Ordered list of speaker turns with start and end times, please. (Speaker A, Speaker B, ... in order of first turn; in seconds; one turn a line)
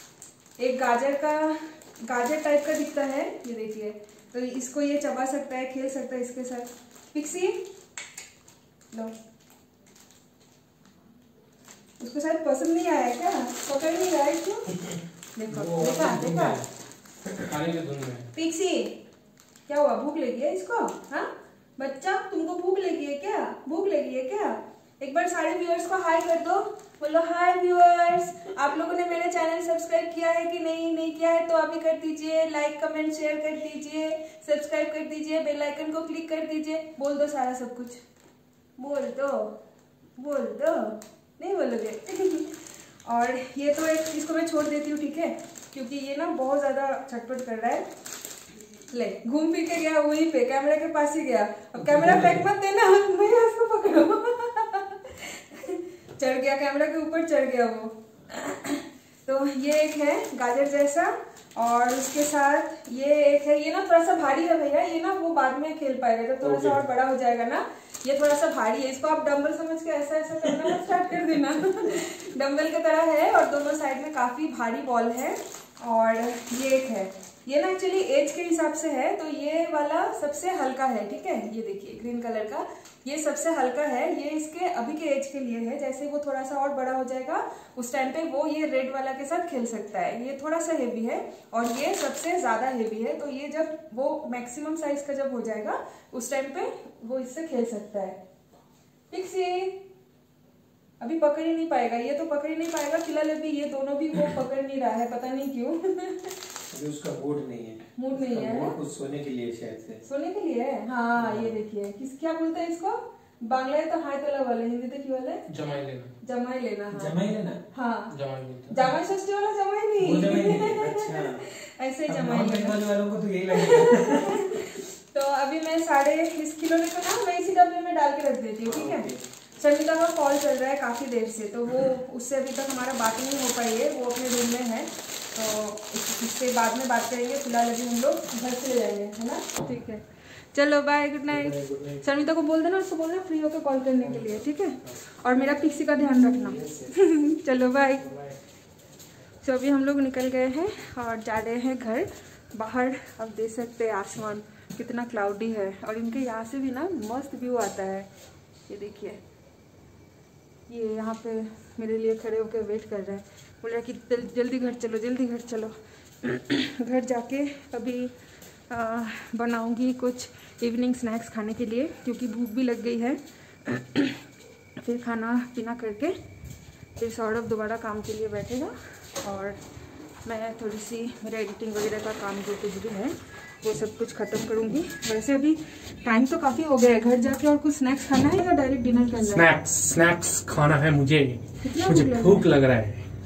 Speaker A: 0.6-7.7
Speaker A: 12.0-14.7
Speaker A: 15.3-16.6
Speaker B: 15.5-16.6
Speaker C: 17.4-18.3
Speaker A: 18.3-19.0
Speaker A: 19.7-38.0
Speaker A: 38.8-39.6
Speaker A: 40.1-47.9
Speaker A: 48.9-98.2
Speaker B: 66.4-66.8
Speaker A: 99.1-99.8
Speaker A: 101.0-106.4
Speaker B: 106.7-110.0
Speaker A: 108.0-108.8
Speaker A: 110.0-115.5
Speaker B: 111.2-111.5
Speaker C: 115.5-116.1
Speaker A: 116.2-117.2
Speaker B: 116.9-117.6
Speaker A: 117.7-118.1
Speaker C: 118.1-118.9
Speaker A: 118.7-122.8
Speaker B: 120.0-121.5
Speaker B: 122.1-124.8
Speaker A: 123.5-148.2
Speaker B: 128.7-129.2
Speaker C: 141.4-142.0
Speaker A: 149.4-158.1
Speaker A: 158.7-159.2
Speaker A: 160.7-168.1
Speaker A: 168.7-174.2
Speaker A: 174.8-176.2
Speaker A: 176.9-179.6
Speaker A: 180.2-189.5
Speaker C: 189.2-193.1
Speaker A: 191.6-192.5